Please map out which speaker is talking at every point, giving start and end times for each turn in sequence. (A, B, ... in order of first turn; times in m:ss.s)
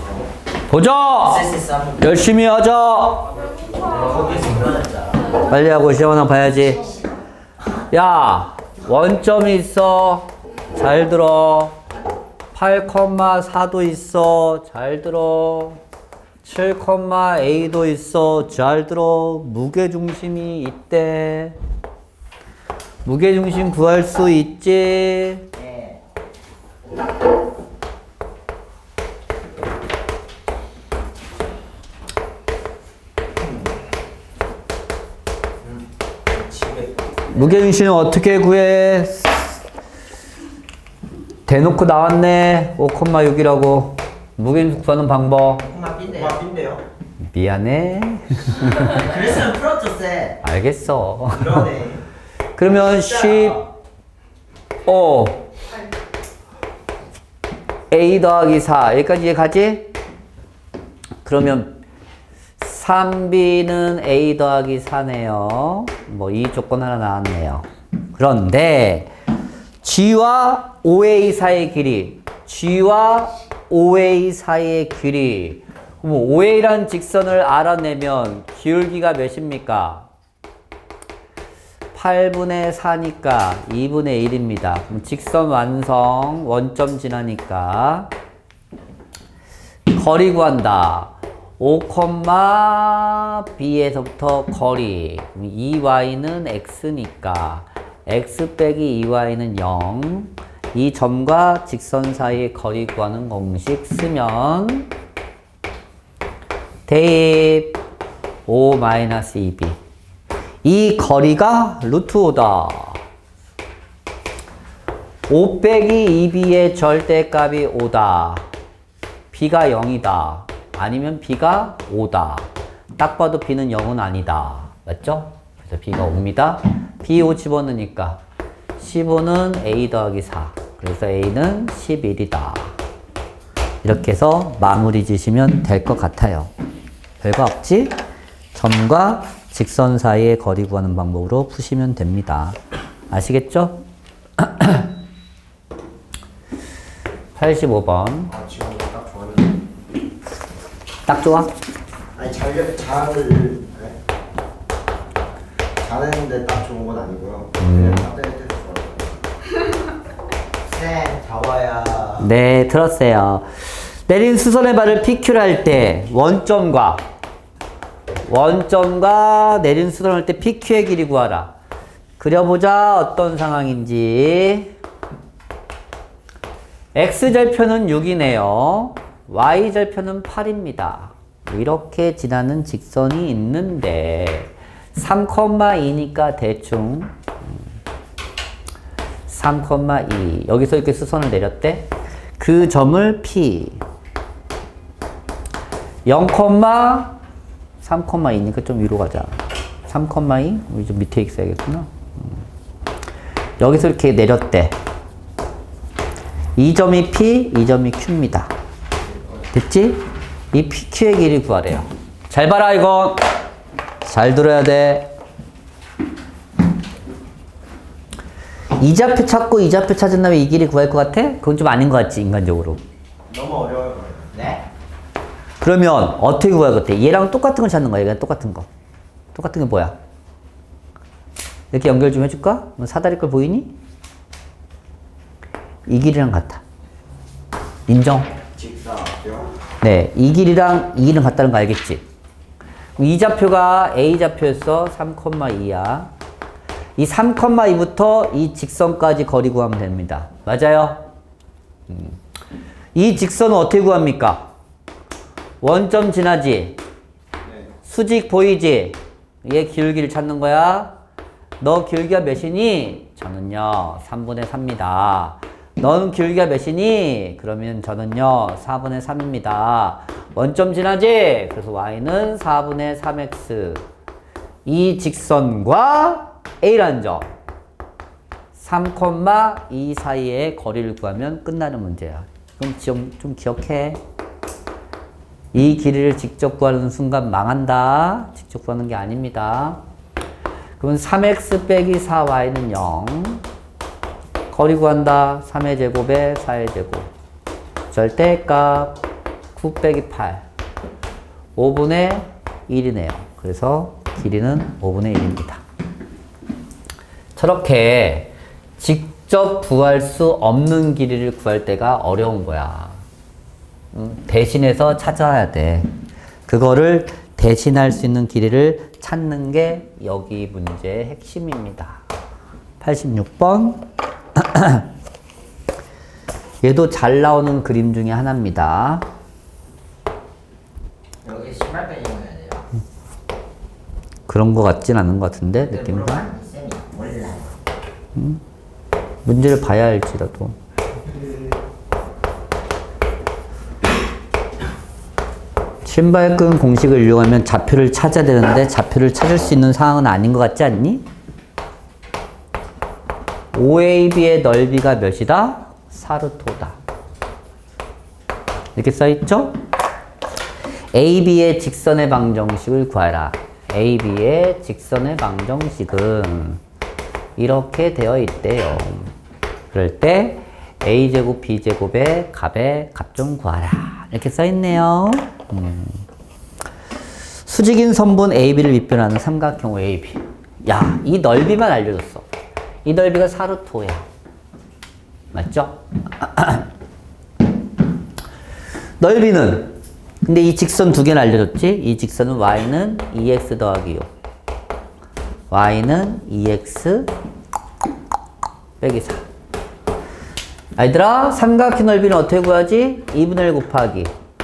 0:00.7-0:03.3 A
0:01.2-0:02.1 B
0:03.9-0:05.4 B
0:05.3-0:06.9 A
0:07.9-0:11.8 A
0:12.5-0:15.8 A
0:16.4-0:21.6 A
0:23.0-0:25.5 A
0:25.6-0:26.0 B
0:35.6-0:37.5 B
0:37.3-0:39.6 A
0:41.5-0:45.6 A
0:45.6-0:46.4 B
0:46.1-0:46.8 C
0:47.2-0:49.1 A
0:48.6-0:50.4 B
0:50.4-0:51.7 A
0:51.4-0:51.9 B
0:51.5-0:51.9 C
0:52.6-0:53.6 A
0:52.8-0:53.6 B
0:54.8-0:55.4 A
0:57.9-0:59.9 A
1:01.2-1:01.8 A
1:02.6-1:09.1 A
1:09.8-1:20.1 A
1:21.9-1:28.1 A
1:29.9-1:44.9 A
1:46.9-1:47.8 A
1:48.5-1:49.8 A
1:50.6-1:53.0 A
1:55.3-1:58.5 A
1:59.3-2:08.2 A
2:08.8-2:12.8 A
2:13.8-2:16.5 A
2:17.2-2:18.0 A
2:18.5-2:22.6 A
2:23.1-2:23.8 A
2:24.4-2:24.9 A
2:27.4-2:28.3 A
2:28.3-2:29.6 C
2:31.0-2:31.5 A
2:32.1-2:34.0 C
2:35.8-2:39.2 C
2:37.6-2:38.1 A
2:40.7-2:42.2 B
2:42.2-2:47.0 A
2:48.2-2:51.5 A
2:52.2-2:54.7 A
2:56.9-3:07.1 A
3:09.3-3:13.8 A
3:16.0-3:17.2 A
3:17.8-3:22.4 A
3:23.6-3:24.8 A
3:26.6-3:28.5 A
3:29.5-3:33.2 A
3:34.0-3:35.1 A
3:38.8-3:42.8 A
3:43.3-3:44.3 C
3:44.3-3:44.6 B
3:45.6-3:48.7 A
3:49.3-3:50.0 A
3:51.7-3:53.7 A
3:55.9-3:56.6 A
3:57.9-3:58.4 A
3:58.5-3:59.5 C
3:59.8-4:02.0 A
4:03.0-4:06.1 A
4:07.0-4:11.1 A
4:11.9-4:12.2 A
4:12.9-4:14.5 A
4:15.6-4:16.8 A
4:17.4-4:17.7 C
4:17.8-4:21.0 A
4:21.6-4:33.8 A
4:34.6-4:37.3 A
4:38.5-4:44.0 A
4:45.5-4:49.8 A
4:50.8-4:53.4 A
4:54.5-4:57.1 A
4:57.9-4:59.0 A
4:59.6-5:00.4 A
5:01.6-5:05.6 A
5:07.4-5:13.0 A
5:13.9-5:15.9 A
5:16.5-5:22.0 A
5:22.8-5:23.8 A
5:24.4-5:24.9 A
5:26.6-5:29.0 A
5:31.2-5:32.7 B
5:34.3-5:36.2 A
5:35.6-5:37.6 B
5:38.1-5:38.4 A
5:39.2-5:40.6 A
5:45.8-5:51.0 A
5:53.5-5:56.8 A
5:58.8-5:59.6 A
6:00.9-6:06.6 A
6:07.4-6:09.1 A
6:09.7-6:16.0 A
6:17.4-6:22.2 A
6:22.8-6:24.1 A
6:25.3-6:26.7 A
6:29.0-6:34.1 A
6:35.5-6:37.1 A
6:38.8-6:39.2 A
6:40.8-6:44.1 A